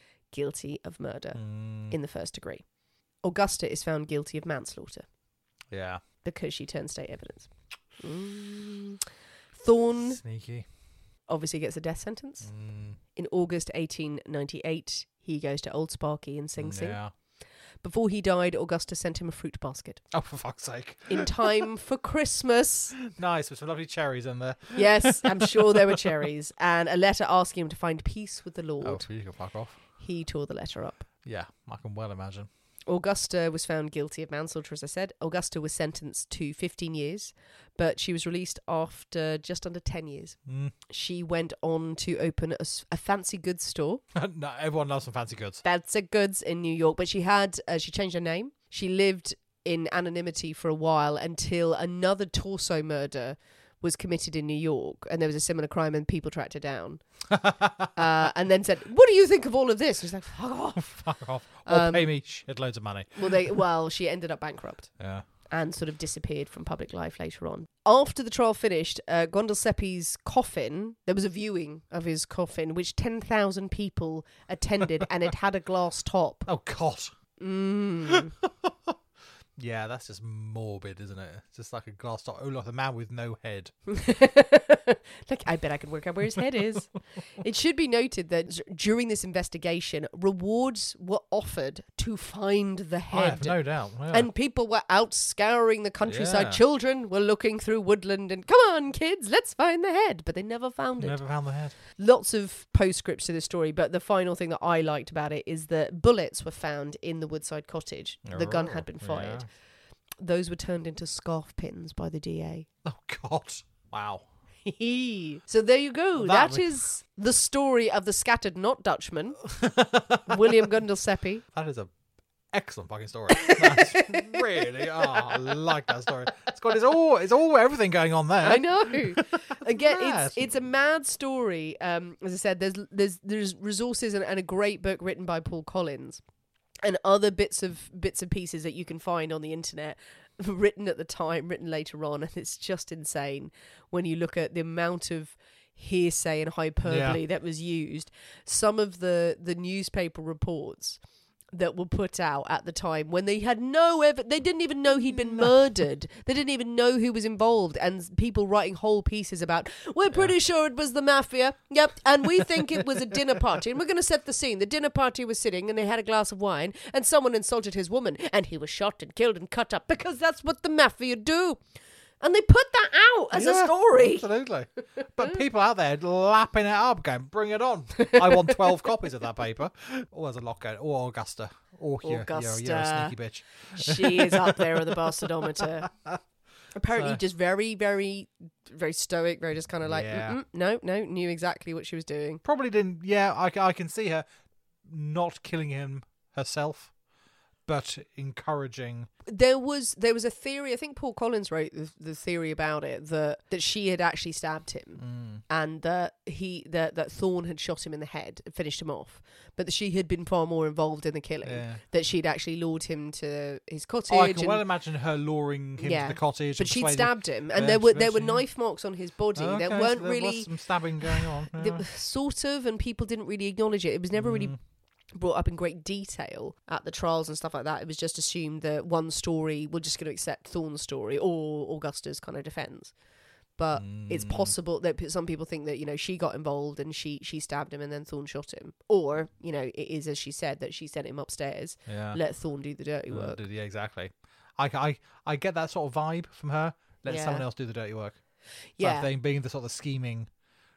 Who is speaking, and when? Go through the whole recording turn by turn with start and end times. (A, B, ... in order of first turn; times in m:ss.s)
0:00.3-0:02.6 A
0:01.4-0:02.0 B
0:03.2-0:05.1 A
0:05.7-0:06.0 B
0:06.2-0:09.0 A
0:09.5-0:10.2 A
0:10.1-0:10.7 B
0:11.3-0:12.5 A
0:12.4-0:13.0 B
0:13.1-0:17.0 A
0:16.6-0:17.1 B
0:17.8-0:20.0 A
0:20.1-0:21.6 B
0:21.1-0:23.0 A
0:23.0-0:26.1 B
0:24.8-0:29.1 A
0:28.8-0:29.8 B
0:30.0-0:31.1 A
0:31.2-0:32.5 B
0:32.9-0:40.4 A
0:40.5-0:40.7 B
0:40.9-0:44.0 A
0:44.1-0:45.6 B
0:45.6-0:57.0 A
0:57.3-0:57.9 B
0:57.9-1:01.0 A
1:00.8-1:03.6 B
1:01.6-1:02.1 A
1:03.1-1:04.9 A
1:05.0-1:05.2 B
1:05.5-1:16.5 A
1:16.5-1:17.1 B
1:17.4-1:18.3 A
1:18.1-1:19.0 B
1:19.6-1:23.7 B
1:23.9-1:41.2 A
1:33.1-1:34.3 B
1:36.0-1:36.6 B
1:41.0-1:41.8 B
1:41.9-1:49.5 A
1:48.3-1:49.5 B
1:50.2-1:52.7 A
1:52.8-1:54.3 B
1:54.6-1:59.5 A
1:56.2-1:56.8 B
1:59.5-2:00.4 B
2:00.3-2:01.4 A
2:01.5-2:01.9 B
2:02.5-2:10.5 B
2:03.4-2:04.4 A
2:05.0-2:05.3 A
2:08.4-2:16.2 A
2:16.8-2:31.0 A
2:26.8-2:27.2 B
2:31.5-2:51.6 A
2:52.2-2:54.3 A
2:53.3-3:06.2 B
2:58.0-2:58.6 A
3:02.0-3:03.2 A
3:03.7-3:05.9 A
3:06.8-3:12.4 A
3:06.9-3:07.2 B
3:09.8-3:10.4 B
3:12.4-3:14.3 B
3:14.8-3:16.9 B
3:17.7-3:19.1 B
3:19.3-3:34.6 A
3:25.0-3:25.4 B
3:31.4-3:31.8 B
3:34.1-3:38.4 B
3:35.8-3:40.5 A
3:39.4-3:41.8 B
3:41.0-3:44.6 A
3:44.2-3:44.6 B
3:45.1-3:52.9 A
3:53.6-4:03.4 A
3:53.7-3:54.5 B
4:01.9-4:02.2 B
4:03.1-4:08.2 B
4:07.1-4:07.4 A
4:08.8-4:09.1 A
4:08.8-4:10.3 B